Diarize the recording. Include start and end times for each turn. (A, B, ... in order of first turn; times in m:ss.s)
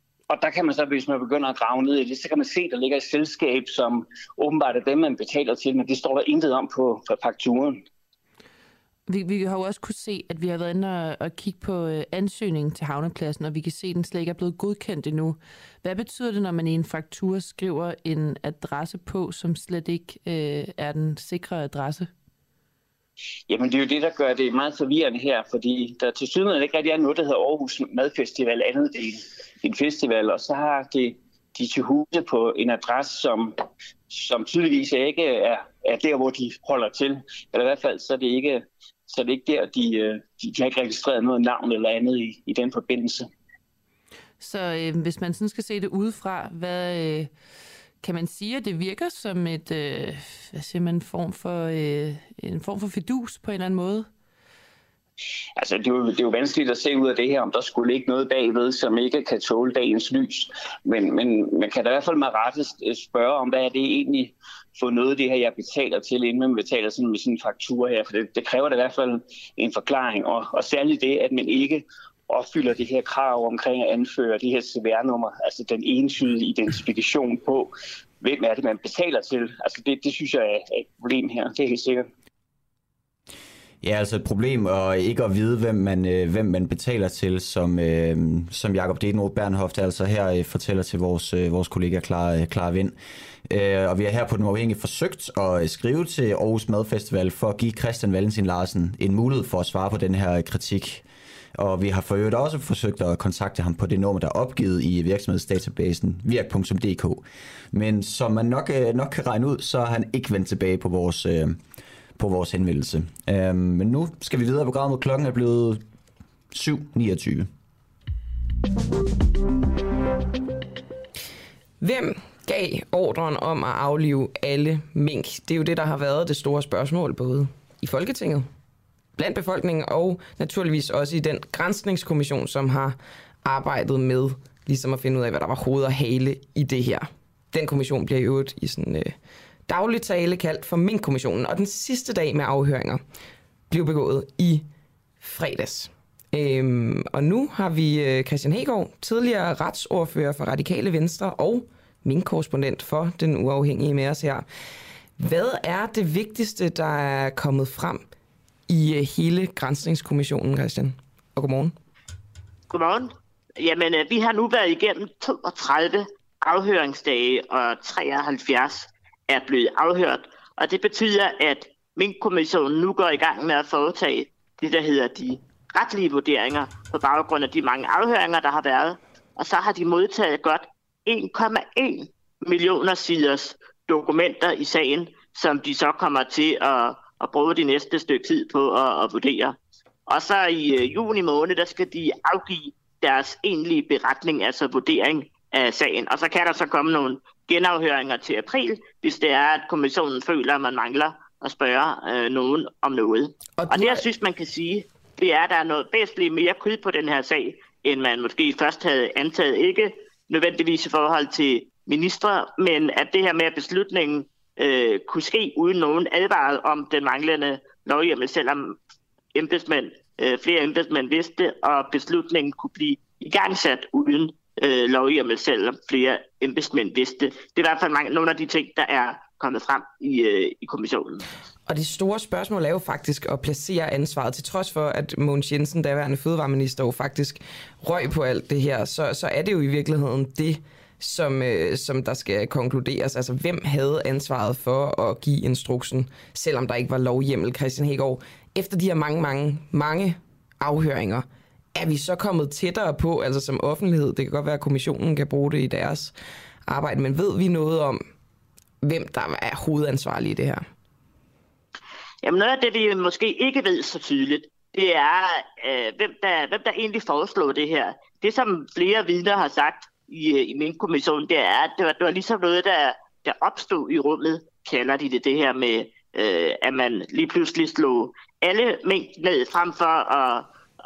0:00.3-0:07.8 A
0:09.1-0:22.1 B
0:23.5-0:33.6 A
0:34.1-0:43.3 A
0:44.4-0:47.3 B
0:48.0-0:54.1 B
0:55.6-1:22.1 A
1:23.8-1:51.6 C
1:52.2-1:55.8 C
1:56.5-1:57.5 C
2:01.8-2:08.5 D
2:09.2-2:19.1 D
2:19.7-2:23.0 D
2:23.7-2:24.6 D
2:25.2-2:34.4 D
2:35.2-2:38.1 D
2:38.7-2:41.7 D
2:42.7-3:09.6 E
3:10.1-3:38.8 E
3:23.6-3:24.0 D
3:39.4-3:51.2 E
3:51.7-4:16.1 D
4:16.7-4:18.0 D
4:18.8-4:20.7 D
4:22.2-4:40.5 E